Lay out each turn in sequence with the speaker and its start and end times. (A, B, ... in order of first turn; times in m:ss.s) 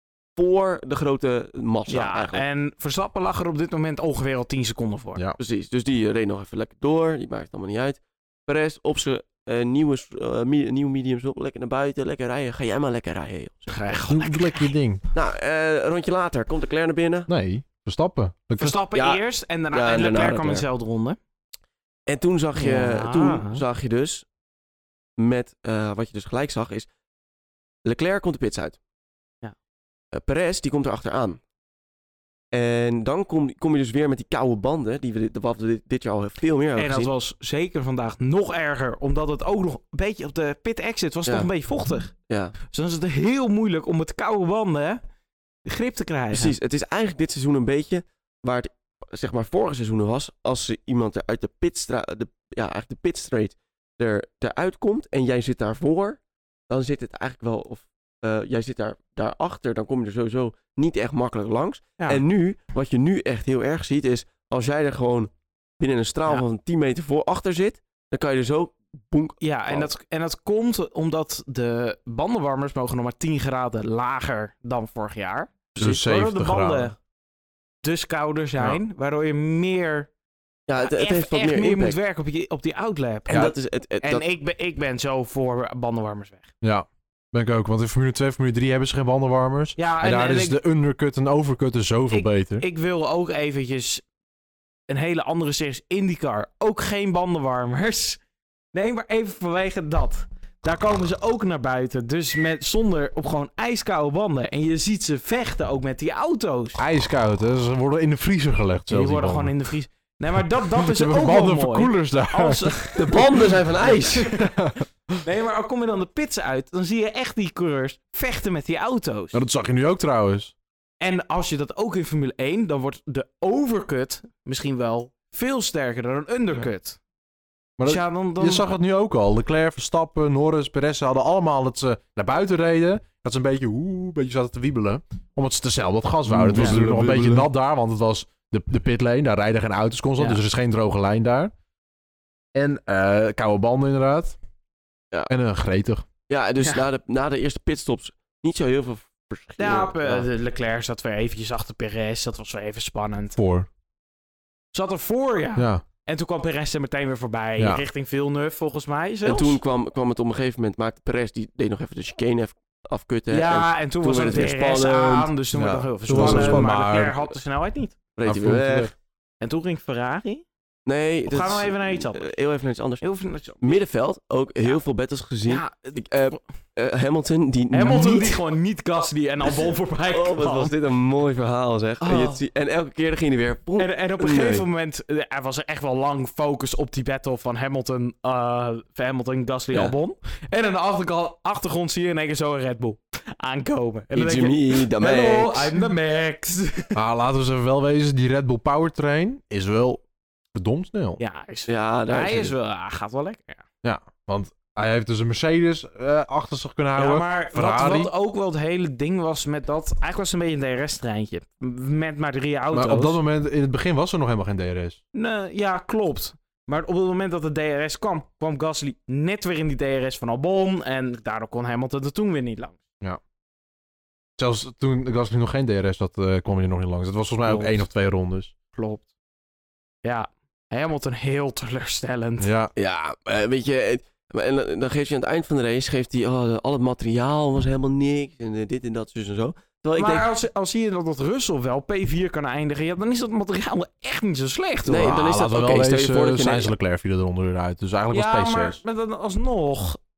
0:00.4-0:02.4 A
0:01.9-0:05.2 B
0:05.4-0:14.0 A
0:13.7-0:14.7 B
0:14.0-0:15.0 C
0:15.1-0:17.3 A
0:17.3-0:18.8 C
0:18.6-0:21.2 B
0:18.9-0:20.6 A
0:22.1-0:24.2 A
0:22.6-0:23.6 B
0:25.2-0:26.9 A
0:27.8-0:28.8 A
0:30.1-0:31.4 A
0:32.5-0:37.1 A
0:36.8-0:42.1 B
0:42.3-0:42.5 A
0:42.7-0:45.0 B
0:45.6-0:46.5 B
0:46.3-1:09.9 A
1:09.4-1:17.0 B
1:15.8-1:16.9 C
1:17.8-1:20.1 B
1:20.7-1:22.0 A
1:20.8-1:26.5 B
1:23.3-1:24.2 A
1:26.6-1:32.6 C
1:29.8-1:30.6 B
1:32.1-1:34.0 B
1:34.9-1:38.2 B
1:38.7-1:46.8 B
1:46.8-1:49.5 C
1:48.9-1:54.5 B
1:50.7-1:53.2 C
1:53.0-1:54.3 A
1:54.1-1:55.2 C
1:55.2-1:59.4 B
1:59.3-2:00.5 C
2:01.0-2:07.0 B
2:07.8-2:21.5 C
2:07.8-2:08.6 B
2:16.3-2:17.5 A
2:22.5-2:24.4 C
2:25.3-2:26.0 C
2:26.3-2:30.3 A
2:29.6-2:33.4 B
2:33.4-2:33.7 C
2:34.7-2:39.6 B
2:35.6-2:35.8 C
2:37.6-2:37.8 C
2:39.2-2:45.3 A
2:43.3-2:48.0 B
2:45.5-2:47.2 C
2:46.1-2:46.7 A
2:48.2-2:48.9 A
2:48.2-2:48.9 C
2:49.4-2:50.4 B
2:50.8-2:53.0 A
2:51.3-2:52.3 B
2:53.0-2:53.8 B
2:53.6-2:58.4 A
2:55.5-2:56.0 B
2:57.7-3:00.7 B
3:00.1-3:04.6 A
3:02.0-3:02.4 B
3:03.8-3:17.0 B
3:14.1-3:15.8 A
3:16.9-3:20.0 C
3:20.5-3:21.2 C
3:21.2-3:23.6 B
3:21.7-3:22.5 A
3:23.8-3:28.1 C
3:27.0-3:33.2 B
3:32.7-3:35.0 C
3:35.1-3:42.8 B
3:44.4-3:48.6 C
3:47.4-3:47.9 B
3:48.7-3:49.0 B
3:50.0-3:52.5 B
3:52.4-3:52.7 C
3:52.8-4:00.3 A
4:00.0-4:05.2 B
4:04.8-4:06.7 A
4:05.0-4:08.8 C
4:08.1-4:10.0 B